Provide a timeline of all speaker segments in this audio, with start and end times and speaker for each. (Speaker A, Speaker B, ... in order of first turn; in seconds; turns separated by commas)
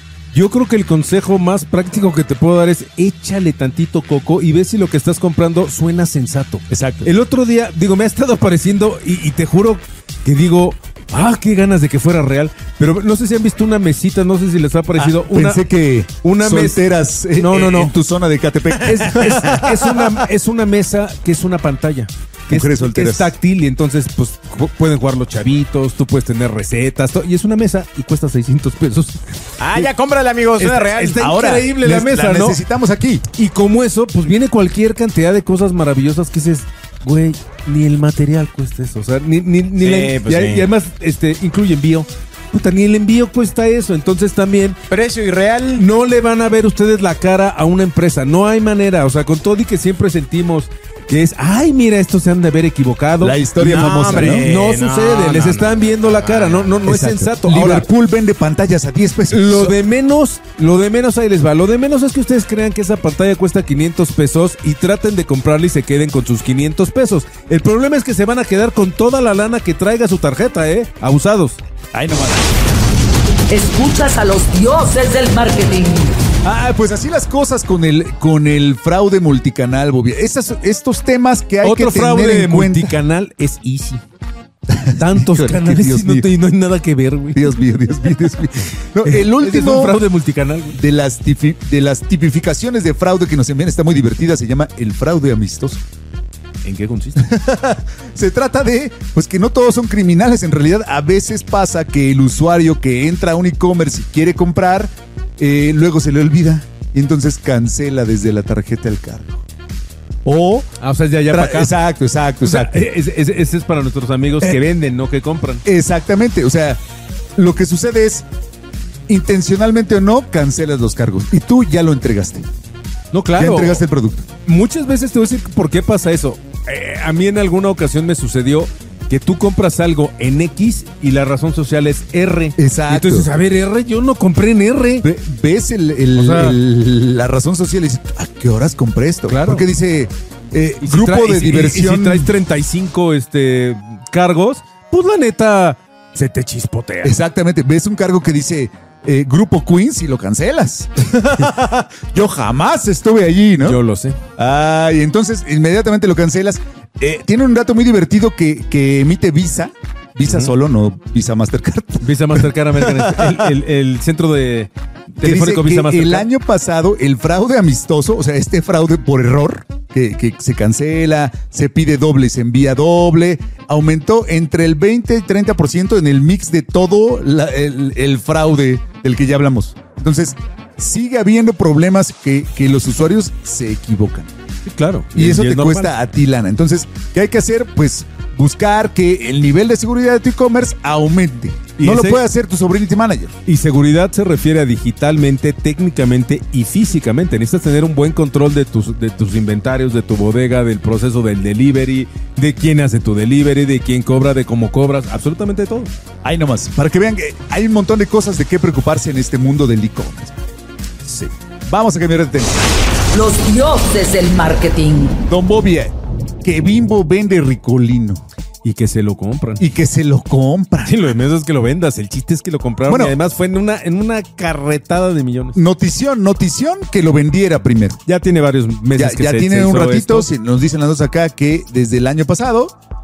Speaker A: 0.3-15.7, Speaker B: 6.7-7.1, Speaker B: 15.0-19.8, Speaker A: 16.2-17.9, Speaker A: 18.8-29.9, Speaker C: 19.4-19.7, Speaker B: 22.5-23.3, Speaker C: 29.6-31.4, Speaker A: 30.6-32.6, Speaker B: 31.1-33.3, Speaker A: 33.4-44.8, Speaker C: 39.8-40.7, Speaker C: 44.9-45.8, Speaker A: 45.8-57.9, Speaker B: 53.2-54.5, Speaker C: 53.6-56.8, Speaker B: 56.9-59.7, Speaker A: 59.3-71.6, Speaker B: 71.9-72.5, Speaker D: 73.5-76.2, Speaker B: 76.4-83.0, Speaker A: 81.6-84.0, Speaker B: 84.7-86.3, Speaker A: 84.9-87.6, Speaker B: 87.3-90.0, Speaker A: 89.0-90.8, Speaker B: 90.7-95.8, Speaker A: 96.6-97.3, Speaker B: 97.2-109.4, Speaker B: 110.2-110.7, Speaker A: 110.8-111.7, Speaker B: 111.3-112.9, Speaker A: 112.4-115.7, Speaker B: 115.7-116.8, Speaker B: 117.4-118.3, Speaker B: 119.1-122.5, Speaker A: 123.1-123.8, Speaker B: 123.4-124.3, Speaker A: 124.5-135.1, Speaker B: 132.6-133.3, Speaker B: 135.0-142.3, Speaker A: 136.2-136.6, Speaker A: 139.3-139.7, Speaker A: 140.8-147.2, Speaker B: 147.0-153.8, Speaker A: 153.6-154.2, Speaker B: 154.4-163.5, Speaker A: 160.2-160.5, Speaker A: 162.0-166.3, Speaker B: 165.2-184.3, Speaker A: 184.7-185.9, Speaker B: 185.2-193.4, Speaker A: 191.8-192.2, Speaker A: 193.5-205.9, Speaker B: 206.2-210.4, Speaker B: 211.1-212.6, Speaker D: 213.1-215.2, Speaker B: 215.3-218.2, Speaker A: 218.6-219.6, Speaker B: 219.6-221.2, Speaker A: 220.8-225.6, Speaker B: 222.9-223.2, Speaker B: 225.6-228.0, Speaker A: 228.1-230.3, Speaker B: 228.9-232.8